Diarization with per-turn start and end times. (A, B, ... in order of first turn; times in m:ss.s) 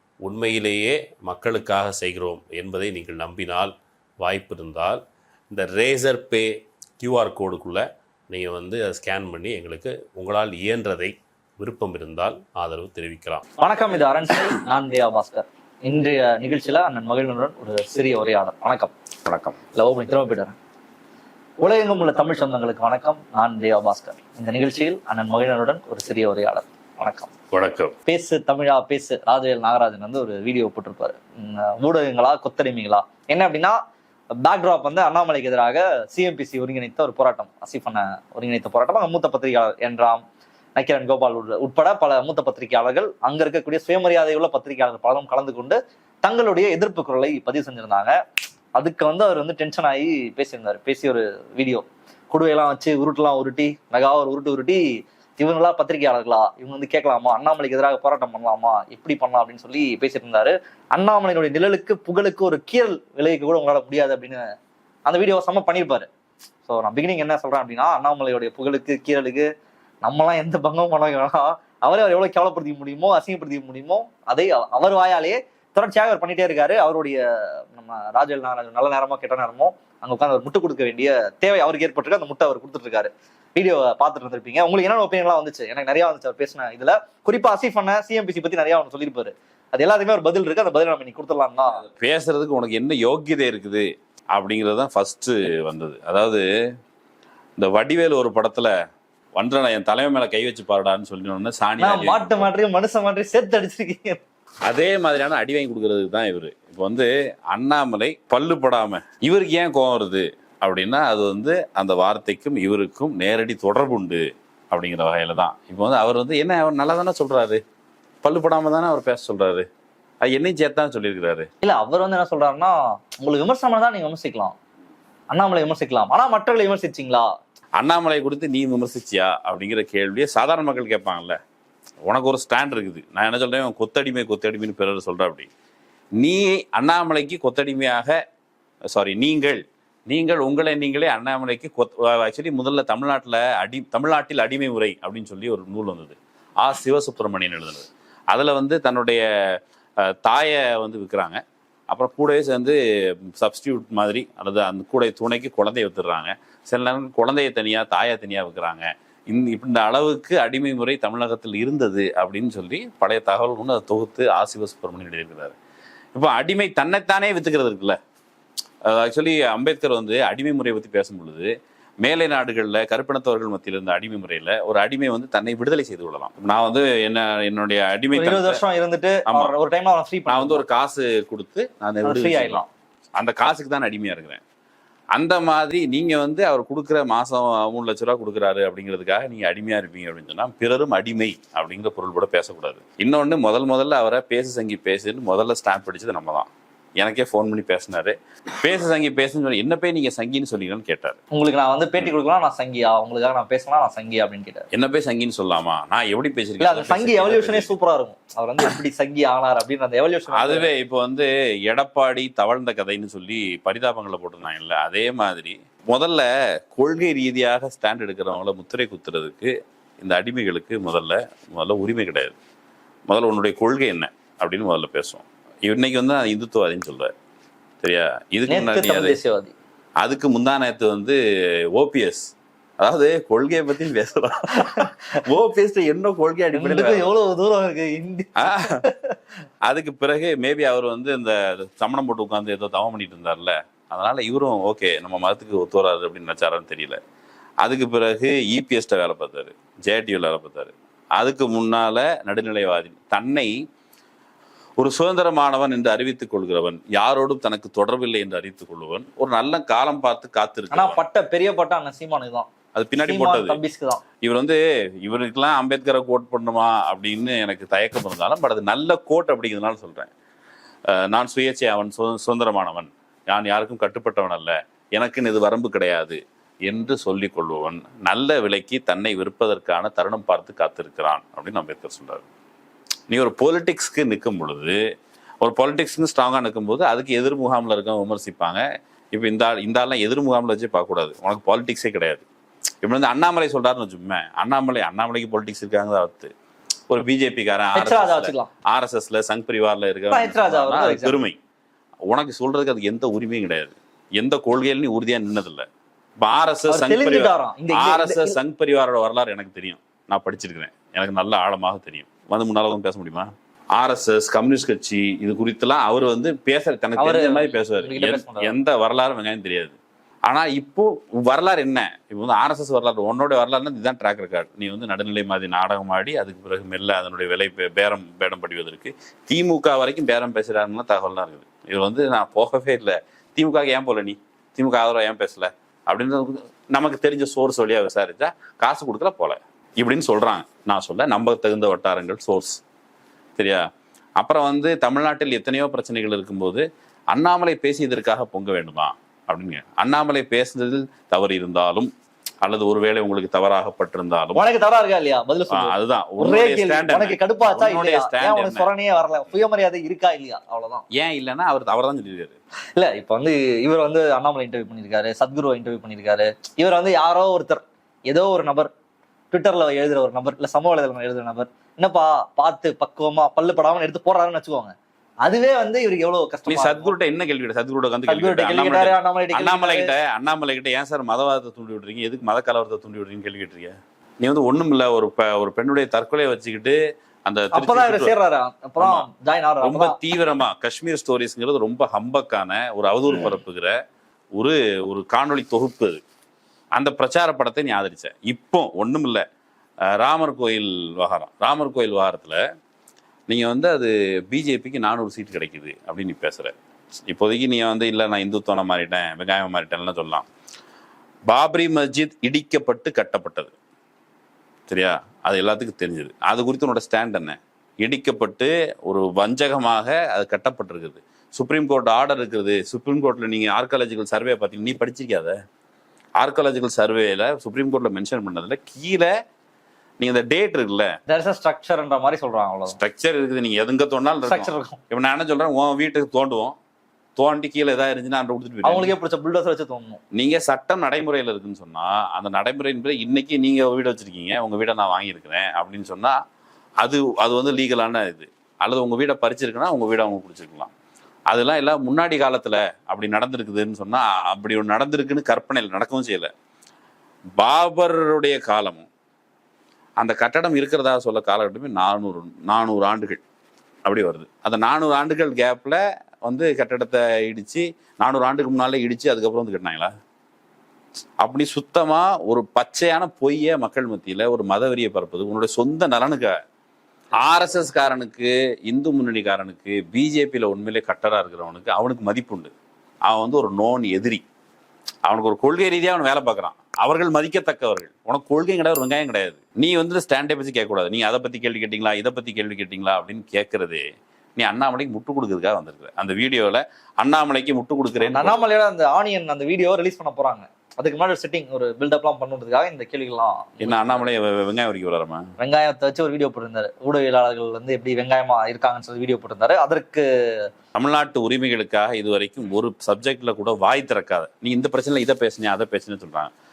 0:00.2-0:13.5 A
0:13.6-0:18.9 B
0:19.2-0:19.6 C
0:19.7-0:20.6 B
0:21.6-0:27.3 B
0:27.5-0:27.9 C
0:28.0-0:33.8 B
0:34.4-0:40.2 B
0:40.8-0:48.2 B
0:48.8-1:04.4 B
1:05.1-1:06.1 B
1:06.6-1:09.5 B
1:10.0-1:31.8 B
1:31.8-1:36.4 C
1:37.6-1:38.7 C
1:39.4-1:42.5 C
1:41.8-1:44.2 B
1:44.6-1:57.6 C
1:58.2-1:59.7 C
2:00.2-2:01.5 C
2:01.6-2:04.5 B
2:05.3-2:07.3 B
2:07.8-2:11.4 C
2:12.0-2:15.5 C
2:16.2-2:18.2 C
2:18.9-2:32.8 C
2:33.4-2:45.5 C
2:46.1-2:48.0 C
2:48.8-2:58.6 C
2:58.1-3:00.6 B
2:59.2-2:59.5 C
3:00.3-3:02.6 C
3:02.0-3:02.7 B
3:03.2-3:04.4 C
3:05.1-3:21.2 C
3:21.3-3:24.6 B
3:24.7-3:27.7 C
3:26.6-3:30.7 B
3:30.3-3:42.3 C
3:43.1-3:47.1 C
3:47.8-3:49.2 C
3:48.5-3:49.5 B
3:50.0-3:51.2 C
3:51.7-3:52.3 C
3:52.8-3:57.1 C
3:54.6-3:54.9 B
3:56.5-3:59.2 B
3:58.4-3:58.8 C
3:59.6-4:07.0 C
4:07.6-4:13.5 C
4:14.8-4:21.0 C
4:20.7-4:22.5 B
4:22.7-4:23.6 C
4:23.0-4:24.0 B
4:24.2-4:30.1 C
4:30.9-4:42.2 C
4:43.1-4:44.8 C
4:45.4-4:48.6 C
4:49.1-4:52.2 C
4:52.8-4:56.3 C
4:56.9-5:01.4 C
4:57.7-4:58.5 B
5:00.1-5:01.2 B
5:02.1-5:05.7 C
5:06.2-5:19.8 C
5:06.7-5:08.4 B
5:17.0-5:18.5 B
5:20.3-5:42.6 C
5:43.4-5:43.7 C
5:44.2-5:51.9 C
5:52.4-5:54.4 C
5:54.3-6:00.8 B
5:55.5-5:58.7 C
6:00.9-6:02.4 C
6:02.7-6:08.7 B
6:09.3-6:16.9 B
6:16.5-6:28.1 C
6:18.1-6:19.9 B
6:27.5-6:30.0 B
6:28.8-6:29.1 C
6:29.6-6:33.8 C
6:34.4-6:36.0 C
6:36.8-6:39.2 C
6:39.9-6:42.4 C
6:43.3-6:46.5 C
6:47.1-6:50.2 C
6:51.3-6:53.5 C
6:54.7-7:05.4 C
7:06.2-7:09.1 C
7:10.0-7:10.9 C
7:11.1-7:12.8 B
7:12.7-7:16.6 C
7:14.3-7:14.8 B
7:17.2-7:18.9 C
7:18.6-7:20.0 B
7:20.1-7:26.2 C
7:26.8-7:30.7 C
7:31.3-7:36.3 C
7:37.4-7:38.9 C
7:40.0-7:43.2 C
7:43.8-7:49.9 C
7:51.2-7:56.4 C
7:57.2-8:02.5 C
8:03.1-8:04.2 C
8:05.1-8:13.8 C
8:14.4-8:18.4 C
8:18.0-8:24.1 B
8:23.6-8:25.3 C
8:25.4-8:30.0 B
8:30.7-8:36.3 C